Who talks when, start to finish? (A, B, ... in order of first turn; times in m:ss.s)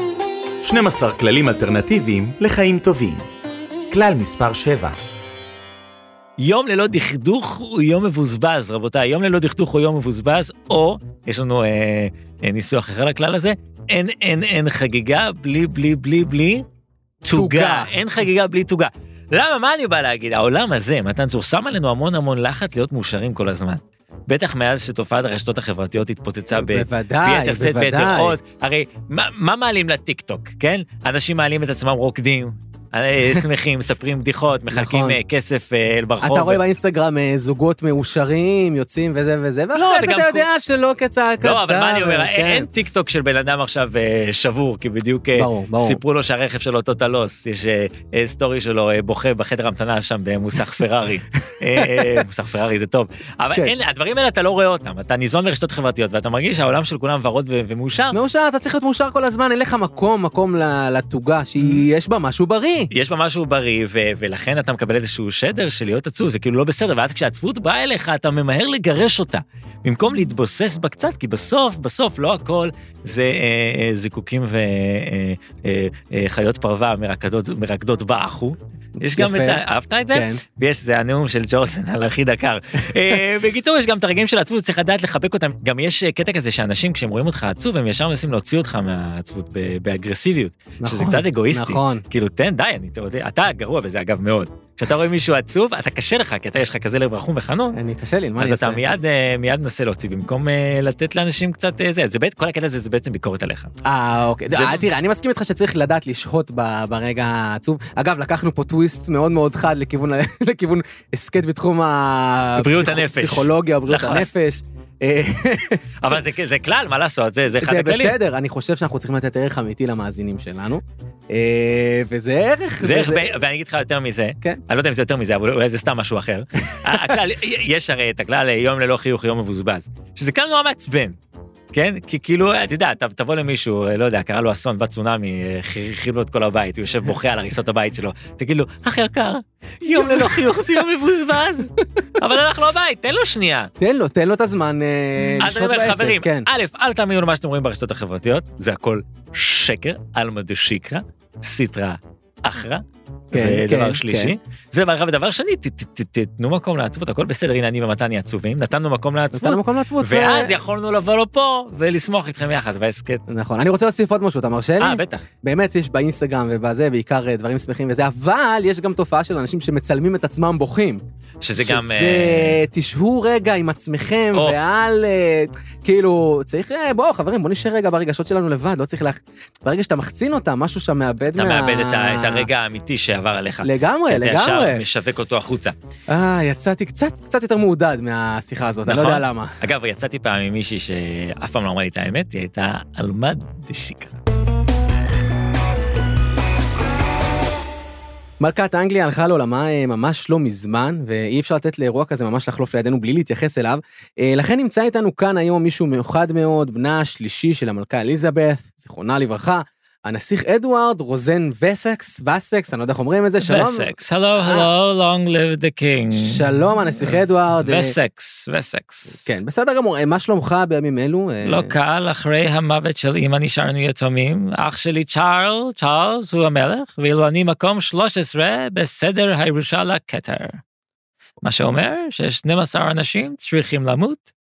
0:00.6-0:03.3 A
0:03.9-0:05.0 A
0:06.4-0:16.6 B
0:17.2-0:36.6 B
0:17.3-0:17.9 C
0:26.5-0:28.4 C
0:34.7-0:35.2 C
0:36.2-0:42.7 C
0:39.7-0:40.4 B
0:41.4-0:58.2 B
0:45.3-0:46.0 C
0:51.8-0:52.2 C
0:58.1-1:02.9 C
1:02.9-1:37.8 B
1:19.0-1:19.6 C
1:20.1-1:20.4 C
1:30.8-1:32.0 C
1:37.7-1:38.8 C
1:38.4-1:43.7 B
1:43.8-1:55.8 C
1:44.5-1:44.8 B
1:52.6-1:54.3 B
1:56.0-1:58.2 B
1:57.6-2:03.3 C
2:02.8-2:11.2 B
2:11.7-2:23.7 B
2:20.0-2:20.3 C
2:23.8-2:26.5 C
2:25.4-2:43.2 B
2:33.3-2:34.3 C
2:39.3-2:40.6 C
2:43.3-2:51.0 C
2:44.8-2:45.2 B
2:51.4-2:52.6 B
2:51.6-3:02.5 C
3:01.3-3:05.7 B
3:03.6-3:04.8 C
3:06.1-3:09.5 C
3:08.8-3:14.2 B
3:18.4-3:34.7 C
3:33.4-3:36.4 B
3:36.1-3:37.9 C
3:37.0-3:39.3 B
3:39.2-3:41.7 C
3:41.4-3:50.6 B
3:51.4-3:54.2 B